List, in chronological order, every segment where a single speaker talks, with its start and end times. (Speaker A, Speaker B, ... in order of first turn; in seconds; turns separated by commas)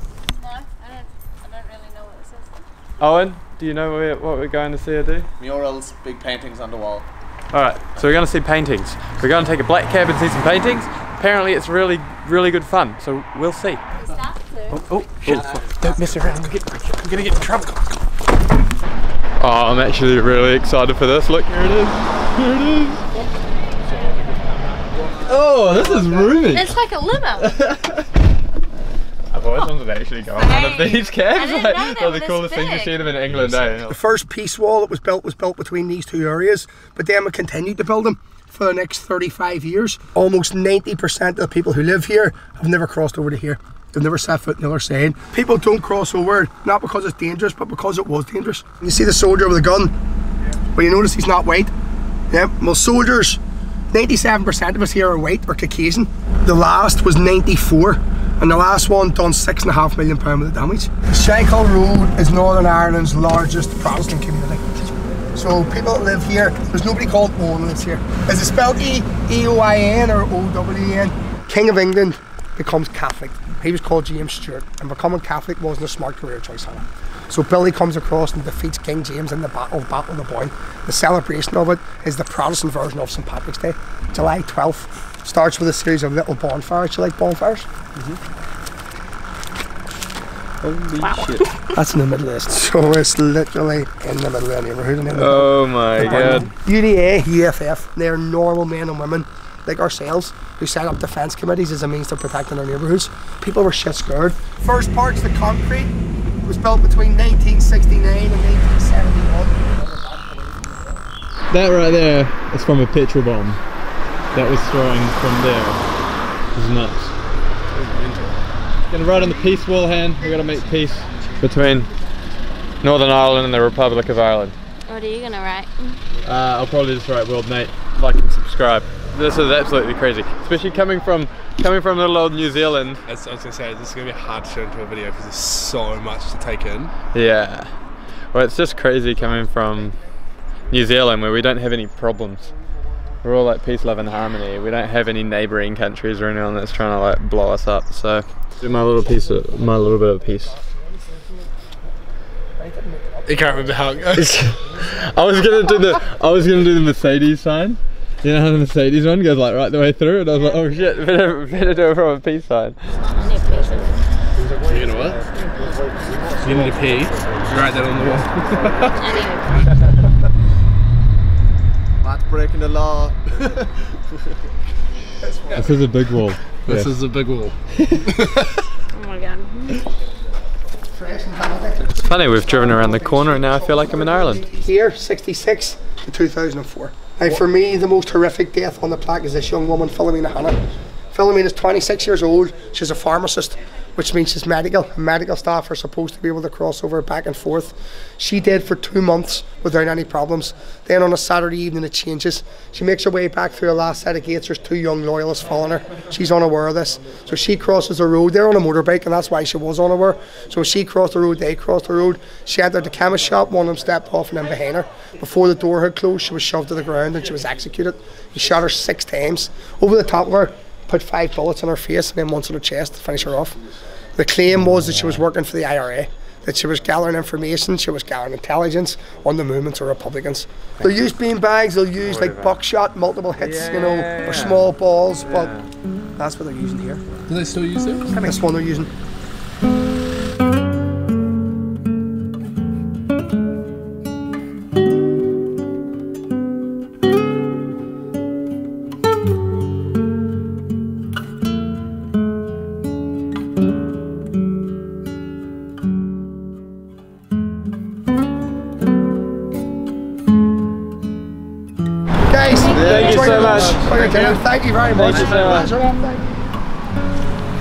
Speaker A: 0.3-2.6, Speaker B: 3.0-5.3, Speaker C: 5.4-7.0, Speaker B: 7.5-13.9, Speaker A: 14.2-14.5, Speaker B: 14.7-17.8, Speaker C: 15.2-15.7, Speaker B: 19.4-23.0, Speaker B: 25.2-26.7, Speaker A: 26.5-27.5, Speaker B: 27.4-28.0, Speaker B: 29.3-34.0, Speaker A: 30.4-33.0, Speaker D: 33.8-49.9, Speaker D: 50.7-51.7, Speaker D: 52.3-53.4, Speaker D: 53.9-64.7, Speaker D: 65.3-87.7, Speaker B: 90.6-91.5, Speaker D: 91.7-105.9, Speaker B: 95.1-96.5, Speaker D: 106.4-111.0, Speaker B: 111.5-113.6, Speaker B: 114.3-115.8, Speaker B: 116.5-117.1, Speaker E: 117.7-118.4, Speaker B: 118.9-121.9, Speaker B: 122.8-124.5, Speaker A: 124.9-126.0, Speaker B: 126.2-133.0, Speaker E: 133.1-136.9, Speaker B: 137.1-137.7, Speaker B: 138.3-139.9, Speaker B: 140.7-142.5, Speaker B: 143.2-150.5, Speaker D: 149.3-151.5, Speaker D: 152.6-153.8, Speaker E: 153.2-154.3, Speaker B: 154.1-162.8, Speaker D: 154.5-155.0, Speaker A: 163.2-163.9, Speaker E: 164.6-165.3, Speaker C: 166.3-167.5, Speaker E: 166.4-169.0, Speaker A: 169.0-169.5, Speaker C: 172.0-173.7, Speaker D: 175.2-175.8, Speaker B: 175.5-176.9, Speaker E: 176.7-178.5, Speaker B: 177.7-178.1, Speaker A: 178.9-179.8, Speaker D: 180.9-190.6, Speaker B: 182.0-184.4, Speaker D: 191.1-223.6, Speaker D: 224.2-235.5, Speaker B: 224.7-225.2, Speaker B: 232.0-232.6, Speaker B: 233.4-234.7, Speaker B: 235.2-235.7, Speaker D: 236.2-237.1, Speaker E: 237.3-238.1, Speaker B: 238.1-238.4, Speaker D: 238.1-238.9, Speaker D: 262.3-266.4, Speaker B: 262.7-264.4, Speaker C: 263.4-263.7, Speaker B: 264.9-265.7, Speaker C: 265.3-265.6